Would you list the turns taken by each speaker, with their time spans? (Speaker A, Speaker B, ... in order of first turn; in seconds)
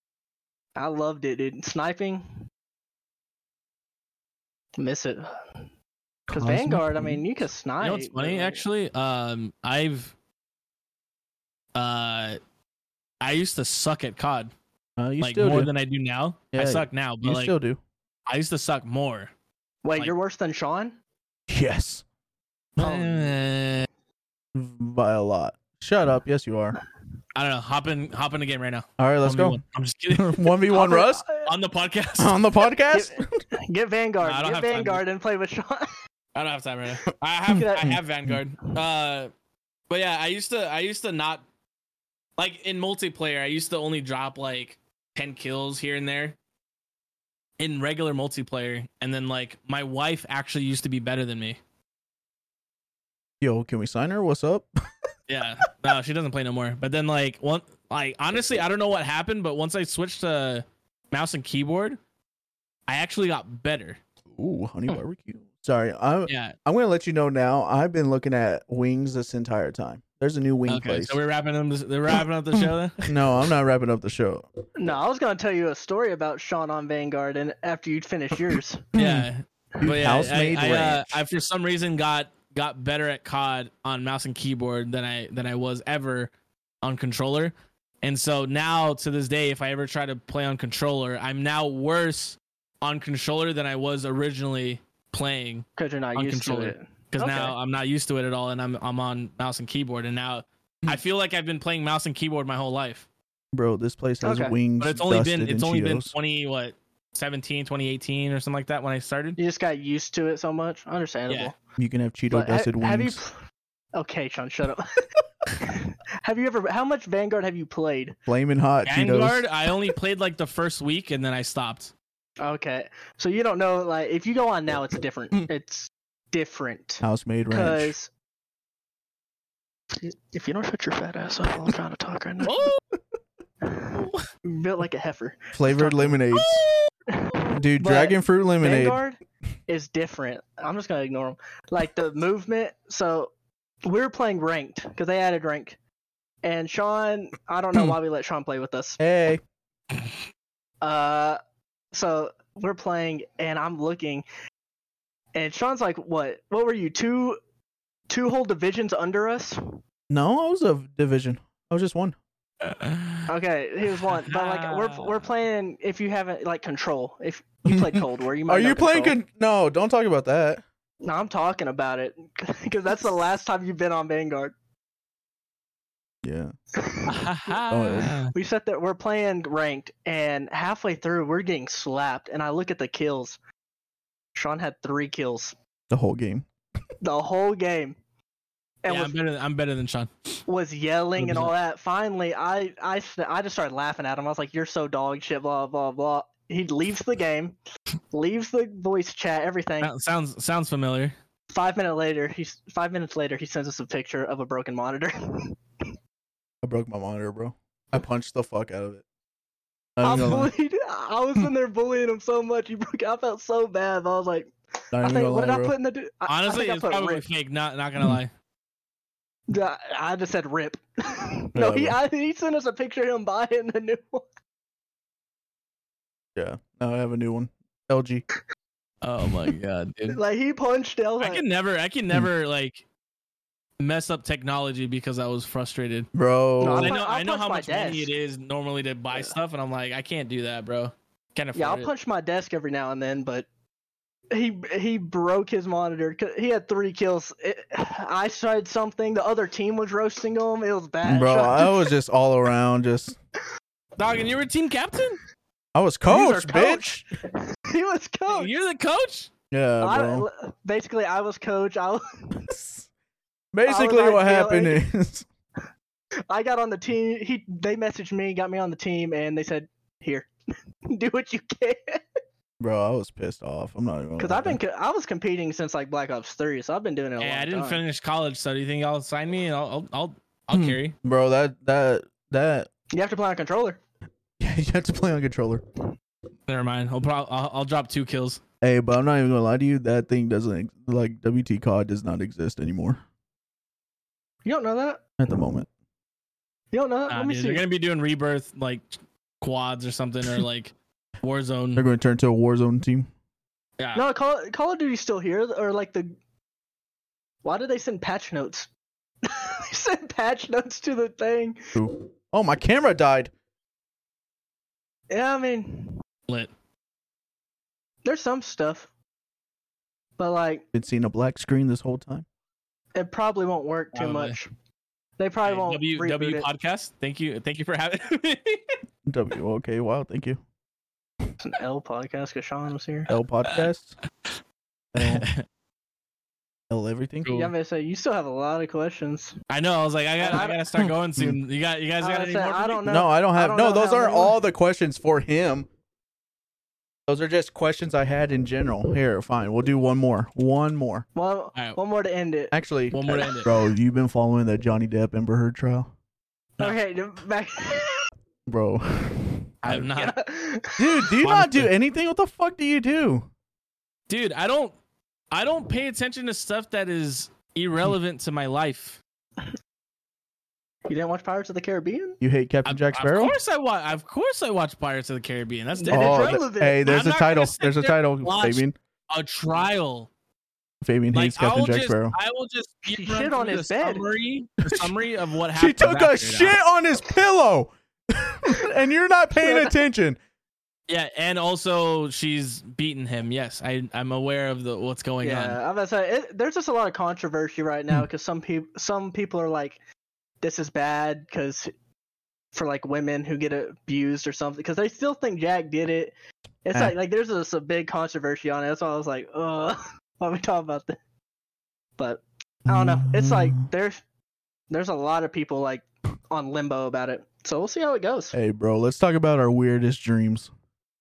Speaker A: 0.8-2.4, 4.8-5.5, 6.3-8.6, 19.8-21.0, 22.8-23.3, 30.7-31.5, 32.9-35.9, 37.6-37.9, 74.8-78.9, 95.8-97.5, 104.2-104.5, 109.4-111.6, 112.3-113.3, 114.0-118.2, 122.4-128.1, 129.9-132.7, 133.6-136.2, 137.1-143.3, 143.8-145.8, 146.4-149.0, 150.8-151.4, 151.9-154.2, 155.3-157.4, 158.1-159.8, 163.3-169.2, 171.0-174.5, 176.8-177.2, 178.3-183.4, 184.3-185.6, 187.0-188.0, 188.8-189.2, 190.5-197.6, 198.1-199.9, 201.5-205.8, 210.0-217.2, 219.5-224.2, 230.1-231.4, 236.6-238.1, 241.5-243.5, 244.3-251.9, 256.1-258.5, 259.8-262.4, 263.6-264.8, 266.3-270.3, 270.9-272.0, 274.2-277.8, 282.9-283.8, 294.4-295.1, 296.7-297.6, 303.9-306.1, 307.4-308.7, 309.2-311.6, 315.1-316.0, 318.0-318.9, 320.2-320.6, 322.9-324.5, 325.2-326.5, 331.4-333.1, 337.3-339.4, 340.2-340.7, 342.0-344.4, 351.1-352.5, 356.6-358.1, 359.9-361.2, 370.9-372.2, 375.7-377.0, 382.9-384.1, 389.4-389.8, 395.2-399.8, 400.4-401.7, 402.5-411.0, 412.0-414.0, 414.7-418.4
Speaker B: 6.3-7.3, 15.0-15.7, 16.5-17.8, 21.5-22.0, 24.5-26.8, 29.0-29.6, 30.1-31.2, 32.2-33.4, 37.5-38.4, 53.4-54.7, 64.3-71.2, 73.0-74.5, 78.9-79.3, 79.8-81.2, 103.5-106.1, 111.8-113.2, 118.3-119.4, 127.0-127.9, 135.5-136.6, 137.6-139.0, 149.0-149.4, 160.1-162.2, 167.7-170.6, 176.2-176.5, 177.7-178.2, 185.9-186.5, 206.6-209.0, 210.0-210.5, 214.9-215.7, 221.5-222.0, 226.3-228.2, 236.1-236.9, 251.0-253.2, 255.7-257.0, 259.5-260.3, 262.5-262.9, 263.5-265.2, 272.6-274.6, 280.5-282.7, 284.4-285.6, 288.6-293.0, 295.2-295.7, 301.8-303.1, 311.8-313.3, 320.7-322.2, 329.1-330.4, 333.1-333.9, 334.9-335.3, 336.7-337.3, 340.8-341.4, 342.9-345.7, 347.1-351.0, 352.5-355.9, 358.5-359.9, 360.8-363.3, 372.2-373.4, 375.9-378.8, 380.8-382.1, 384.6-384.9, 385.5-390.2, 412.7-413.7, 418.3-420.5
Speaker C: 7.8-10.1, 11.7-12.4, 13.2-14.5, 15.2-17.5, 18.3-19.3, 22.8-23.9, 27.3-30.5, 31.4-32.4, 34.2-35.0, 36.3-39.3, 39.9-41.4, 42.4-46.4, 47.6-51.6, 55.3-62.0, 62.9-64.0, 66.3-66.5, 70.7-73.1, 79.0-86.3, 86.8-103.1, 104.8-109.4, 118.8-121.9, 132.4-132.8, 162.6-163.2, 164.1-165.2, 177.1-178.3, 188.8-190.4, 191.2-191.5, 199.8-201.1, 216.3-218.3, 229.0-230.2, 231.2-232.8, 233.8-236.1, 236.7-241.9, 254.0-255.2, 258.3-259.3, 277.2-280.9, 286.5-288.4, 297.1-301.8, 323.9-324.4, 325.4-328.8, 334.9-335.4, 337.2-337.5, 339.5-342.9, 352.9-353.5, 359.6-360.1, 361.2-361.7, 364.1-364.7, 365.3-369.0, 372.6-380.1, 381.1-386.6, 390.9-395.6